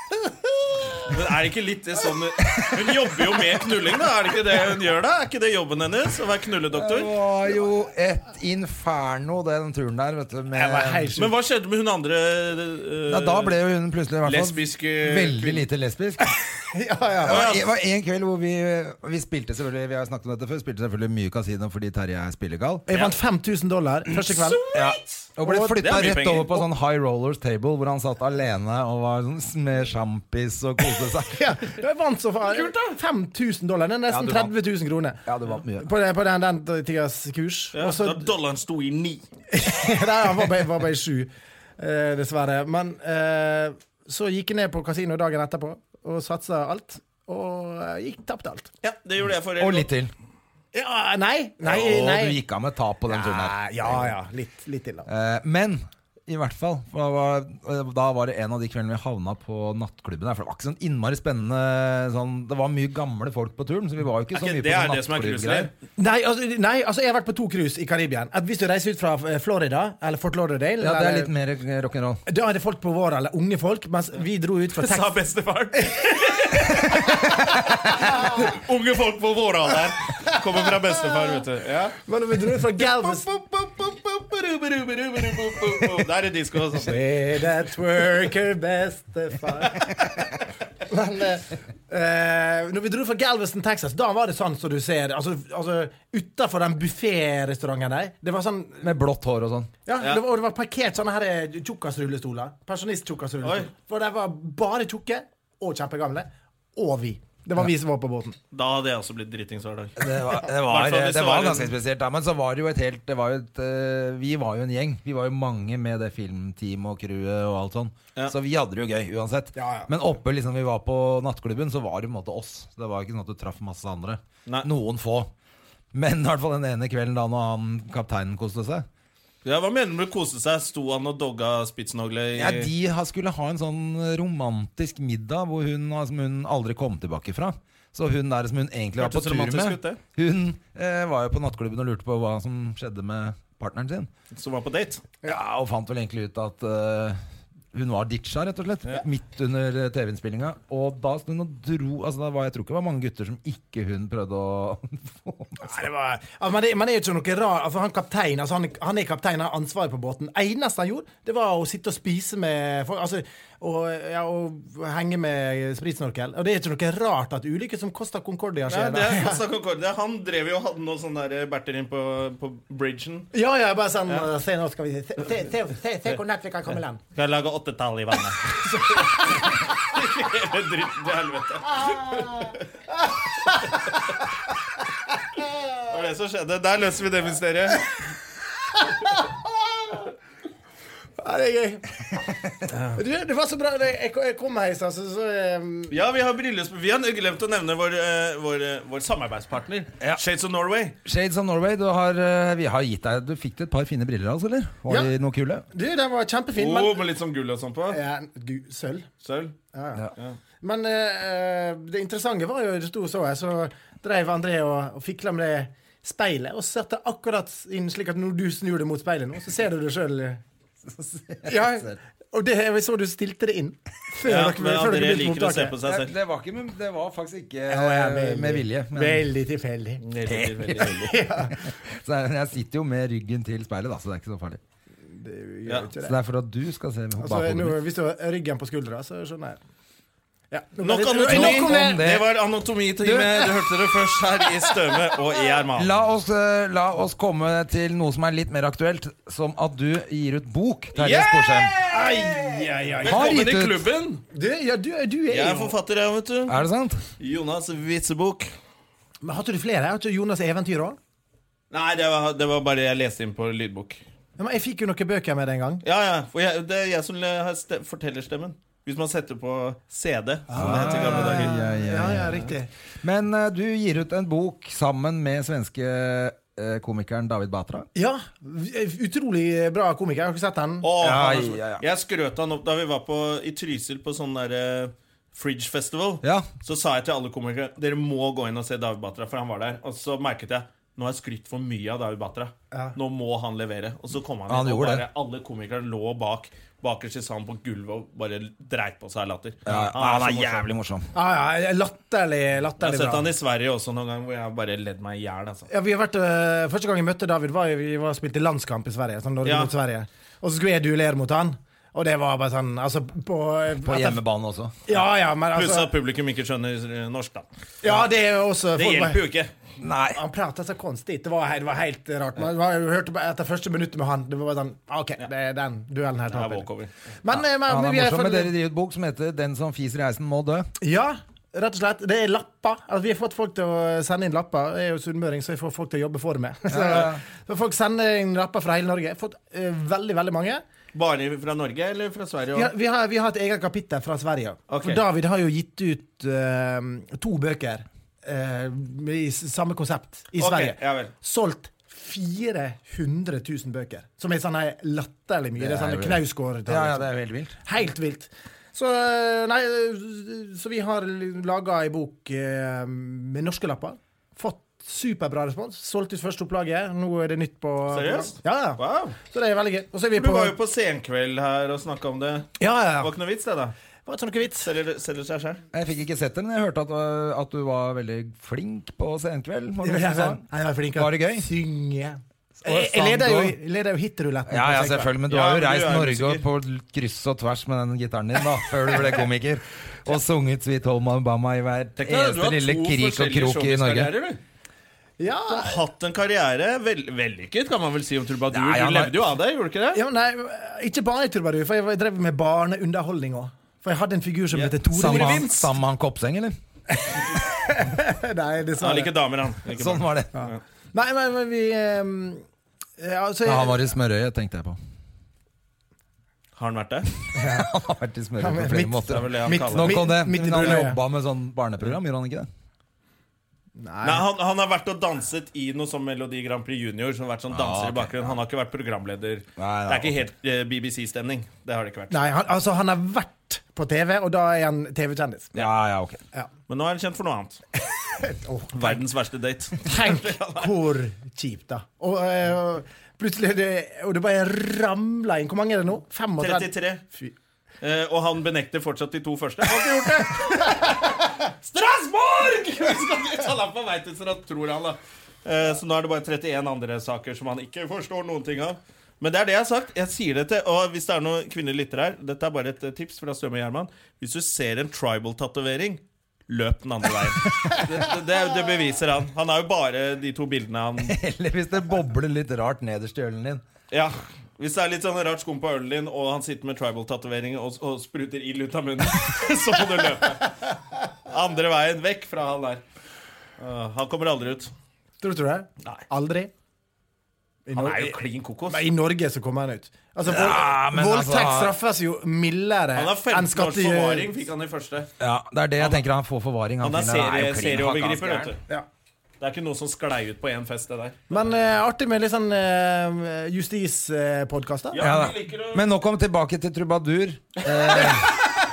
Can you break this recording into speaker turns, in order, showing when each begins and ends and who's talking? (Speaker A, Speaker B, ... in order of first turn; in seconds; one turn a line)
Speaker A: 1.1-7.1
Speaker B: 2.5-2.9
Speaker B: 6.7-11.1
Speaker C: 10.5-11.3
Speaker A: 11.2-13.6
Speaker B: 13.1-16.3
Speaker A: 14.2-15.6
Speaker C: 16.3-17.5
Speaker B: 17.2-22.8
Speaker A: 17.2-17.7
Speaker C: 22.9-24.6
Speaker B: 24.1-31.5
Speaker A: 24.6-25.2
Speaker C: 25.4-25.8
Speaker A: 25.8-26.6
Speaker C: 31.3-38.2
Speaker A: 32.5-32.9
Speaker B: 34.1-34.5
Speaker B: 35.2-35.9
Speaker A: 37.7-39.2
Speaker C: 39.5-48.7
Speaker A: 48.8-49.9
Speaker B: 49.6-50.1
Speaker C: 50.7-52.4
Speaker B: 51.6-54.1
Speaker C: 53.1-55.1
Speaker B: 55.0-65.7
Speaker A: 64.3-65.7
Speaker C: 66.0-71.3
Speaker B: 70.8-72.2
Speaker C: 72.2-75.2
Speaker A: 74.8-82.0
Speaker C: 75.8-78.5
Speaker C: 80.9-81.3
Speaker C: 81.9-83.3
Speaker A: 82.8-87.0
Speaker C: 86.7-98.9
Speaker B: 98.8-99.7
Speaker C: 99.8-108.4
Speaker A: 103.4-103.7
Speaker A: 108.5-111.7
Speaker B: 110.0-125.3
Speaker C: 119.5-119.9
Speaker B: 125.9-128.8
Speaker A: 129.4-132.7
Speaker B: 132.3-144.1
Speaker A: 138.9-140.0
Speaker A: 144.3-145.0
Speaker B: 145.2-147.2
Speaker B: 147.7-155.8
Speaker C: 155.6-169.4
Speaker A: 168.7-173.3
Speaker C: 173.3-177.0
Speaker A: 177.1-182.6
Speaker C: 178.6-179.5
Speaker C: 181.7-182.5
Speaker C: 183.4-183.9
Speaker A: 185.9-187.8
Speaker C: 188.7-190.1
Speaker C: 191.2-192.3
Speaker C: 192.9-195.9
Speaker A: 195.9-201.0
Speaker B: 201.0-205.6
Speaker C: 205.7-207.1
Speaker A: 206.5-208.0
Speaker C: 207.9-209.1
Speaker A: 209.2-209.6
Speaker C: 209.7-220.4
Speaker B: 220.9-222.0
Speaker C: 221.4-225.8
Speaker A: 224.2-226.1
Speaker B: 225.8-229.2
Speaker C: 227.7-230.0
Speaker A: 230.0-231.1
Speaker B: 230.3-234.6
Speaker C: 230.8-231.7
Speaker C: 235.1-236.2
Speaker B: 236.0-237.8
Speaker C: 237.2-239.6
Speaker C: 240.5-242.0
Speaker A: 240.8-245.9
Speaker B: 241.2-242.3
Speaker B: 243.0-243.5
Speaker B: 245.7-251.7
Speaker A: 250.9-254.2
Speaker C: 251.9-253.4
Speaker B: 253.0-253.8
Speaker C: 254.3-255.8
Speaker A: 255.3-256.6
Speaker B: 256.5-257.0
Speaker A: 257.2-258.5
Speaker C: 259.2-261.0
Speaker A: 261.7-264.0
Speaker C: 264.4-265.8
Speaker A: 265.8-271.5
Speaker C: 270.5-272.7
Speaker B: 270.5-272.5
Speaker B: 273.0-277.9
Speaker C: 277.9-280.9
Speaker A: 280.8-300.7
Speaker B: 281.0-281.8
Speaker B: 286.2-286.5
Speaker C: 292.7-293.0
Speaker B: 294.5-295.0
Speaker B: 299.6-301.1
Speaker C: 301.1-303.3
Speaker A: 302.8-305.7
Speaker C: 305.7-314.2
Speaker A: 309.4-309.7
Speaker B: 313.8-314.7
Speaker C: 314.9-315.9
Speaker A: 315.5-317.4
Speaker C: 317.8-319.2
Speaker A: 318.8-319.5
Speaker B: 319.8-320.2
Speaker C: 320.1-326.7
Speaker A: 326.3-326.9
Speaker C: 327.2-328.5
Speaker B: 327.3-330.7
Speaker C: 330.8-340.6
Speaker B: 336.7-337.2
Speaker A: 340.9-342.7
Speaker C: 342.5-357.1
Speaker A: 344.7-345.0
Speaker A: 350.4-351.1
Speaker B: 355.6-357.6
Speaker C: 357.6-370.5
Speaker A: 367.9-369.2
Speaker A: 370.1-373.7
Speaker C: 372.6-373.1
Speaker C: 374.1-374.7
Speaker A: 374.6-375.6
Speaker B: 375.7-380.4
Speaker C: 379.8-385.1
Speaker B: 380.9-381.5
Speaker B: 382.6-383.6
Speaker B: 384.5-394.1
Speaker A: 385.3-386.4
Speaker A: 392.0-394.4
Speaker C: 395.2-395.8
Speaker A: 395.5-400.0
Speaker B: 398.5-399.2
Speaker C: 399.9-405.5
Speaker A: 404.5-405.7
Speaker B: 404.9-406.6
Speaker C: 406.9-409.1
Speaker A: 408.8-410.6
Speaker B: 409.7-410.3
Speaker C: 410.3-412.4
Speaker C: 413.0-413.9
Speaker B: 413.4-414.8
Speaker A: 416.6-417.1
Speaker C: 417.3-417.7
Speaker B: 417.4-422.5
Speaker C: 418.4-421.0
Speaker A: 419.1-420.0
Speaker C: 423.8-424.2
Speaker A: 424.0-432.2
Speaker B: 427.5-428.3
Speaker B: 429.6-430.2
Speaker C: 432.1-435.6
Speaker B: 435.5-436.2
Speaker A: 436.7-437.6
Speaker C: 438.1-439.0
Speaker A: 438.7-440.7
Speaker C: 439.8-447.3
Speaker A: 446.4-447.0
Speaker A: 447.8-471.1
Speaker C: 450.7-450.9
Speaker B: 471.0-473.6
Speaker A: 473.9-480.5
Speaker A: 481.2-482.8
Speaker A: 483.6-484.7
Speaker C: 485.2-486.5
Speaker C: 487.6-494.4
Speaker A: 487.7-488.8
Speaker B: 490.2-491.7
Speaker A: 492.9-495.1
Speaker B: 495.2-498.5
Speaker A: 495.8-496.0
Speaker A: 496.8-498.6
Speaker A: 499.4-501.5
Speaker C: 501.3-505.0
Speaker A: 504.9-505.8
Speaker B: 505.0-508.3
Speaker A: 507.9-508.2